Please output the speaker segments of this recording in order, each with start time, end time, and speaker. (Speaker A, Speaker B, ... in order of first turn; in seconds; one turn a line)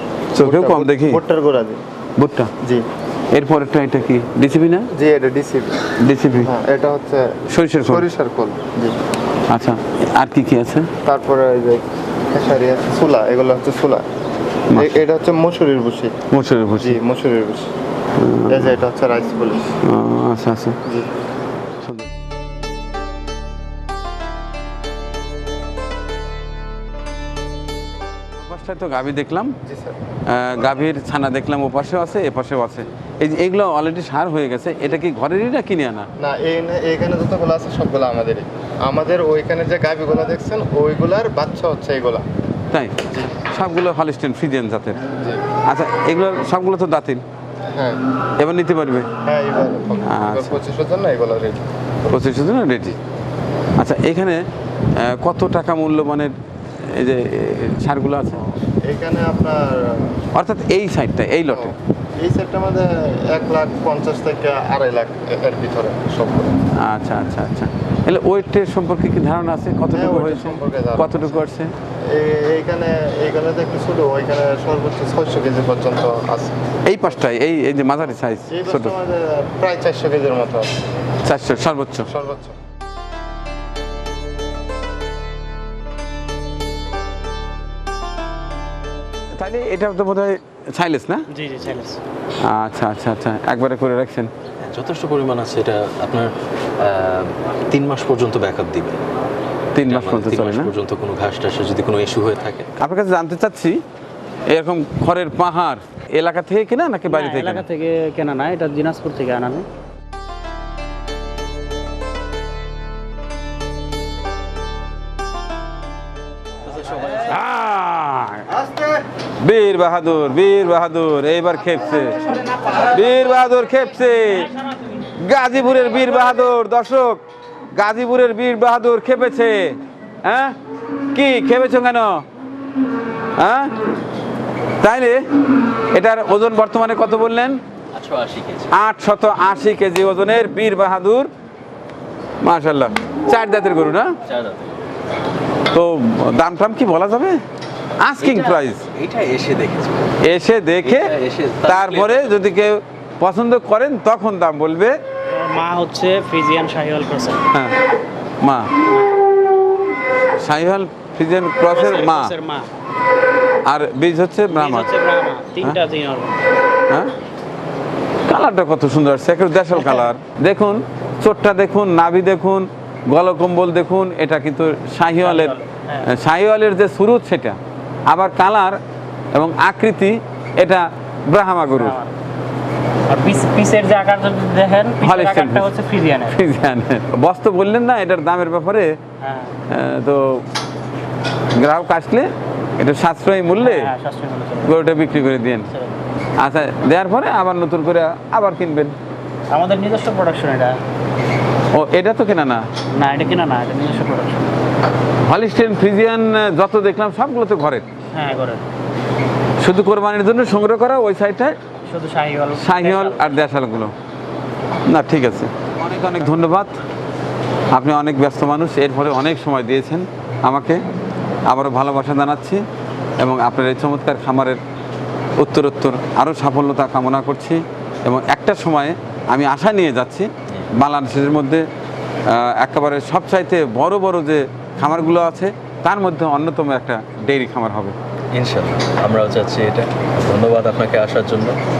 Speaker A: 0.3-1.2
Speaker B: 0.4-1.8
Speaker A: 2.2-2.5
Speaker A: 3.3-4.9
Speaker B: 4.9-5.8
Speaker A: 6.0-6.5
Speaker B: 6.4-7.3
Speaker A: 7.5-8.1
Speaker B: 7.8-8.9
Speaker A: 9.5-10.9
Speaker B: 11.0-14.0
Speaker A: 14.7-15.0
Speaker B: 14.7-16.1
Speaker A: 16.3-17.0
Speaker B: 16.8-17.7
Speaker A: 18.2-18.7
Speaker B: 18.5-19.7
Speaker A: 19.8-20.8
Speaker A: 28.4-29.6
Speaker B: 29.6-30.0
Speaker A: 30.3-36.1
Speaker B: 36.2-42.2
Speaker A: 42.7-45.0
Speaker A: 45.7-47.2
Speaker B: 47.7-48.0
Speaker A: 48.4-49.1
Speaker B: 49.2-51.6
Speaker A: 50.1-50.5
Speaker A: 52.1-53.0
Speaker A: 53.8-54.4
Speaker A: 55.0-56.3
Speaker A: 56.9-58.5
Speaker B: 58.8-60.2
Speaker A: 60.3-61.7
Speaker B: 61.5-66.5
Speaker A: 66.8-71.7
Speaker B: 69.9-71.4
Speaker B: 72.1-76.5
Speaker A: 76.9-78.9
Speaker B: 78.5-80.7
Speaker A: 81.2-82.1
Speaker B: 82.1-82.5
Speaker A: 89.3-91.3
Speaker C: 91.3-92.0
Speaker A: 92.4-94.3
Speaker D: 94.6-99.0
Speaker A: 99.7-100.7
Speaker D: 99.8-102.7
Speaker A: 102.8-103.8
Speaker A: 104.5-107.7
Speaker C: 107.1-109.7
Speaker D: 116.7-117.3
Speaker A: 117.2-118.6
Speaker A: 119.4-124.5
Speaker A: 125.1-127.2
Speaker A: 127.7-130.5
Speaker A: 131.1-132.2
Speaker A: 133.4-133.7
Speaker A: 134.8-135.2
Speaker A: 135.9-137.6
Speaker D: 137.9-138.7
Speaker A: 138.7-141.3
Speaker A: 142.4-144.2
Speaker D: 144.2-144.8
Speaker A: 145.7-147.4
Speaker A: 148.0-148.8
Speaker D: 148.2-150.2
Speaker A: 150.2-151.1
Speaker D: 150.8-152.4
Speaker A: 151.6-155.0
Speaker C: 155.3-157.4
Speaker A: 157.5-157.8
Speaker A: 158.4-158.7
Speaker C: 158.9-159.1
Speaker A: 160.4-162.3
Speaker C: 161.7-162.7
Speaker A: 163.7-164.9
Speaker C: 164.5-166.5
Speaker A: 168.3-177.6
Speaker C: 169.8-170.1
Speaker C: 175.2-176.1
Speaker A: 178.1-178.8
Speaker A: 179.3-182.0
Speaker C: 181.7-182.1
Speaker C: 183.1-186.4
Speaker A: 185.0-185.7
Speaker A: 186.2-188.9
Speaker C: 189.2-189.6
Speaker A: 189.7-190.4
Speaker A: 191.6-193.9
Speaker C: 193.6-194.8
Speaker A: 194.6-195.7
Speaker C: 195.7-196.0
Speaker A: 196.4-198.9
Speaker C: 199.5-200.8
Speaker A: 201.7-202.6
Speaker C: 202.9-204.5
Speaker A: 205.3-207.8
Speaker C: 208.1-208.6
Speaker A: 209.6-211.6
Speaker C: 211.9-213.4
Speaker A: 212.6-213.9
Speaker A: 214.9-216.7
Speaker A: 217.7-220.8
Speaker A: 221.5-222.6
Speaker A: 223.2-224.6
Speaker A: 225.4-231.6
Speaker A: 232.3-237.9
Speaker D: 238.3-241.6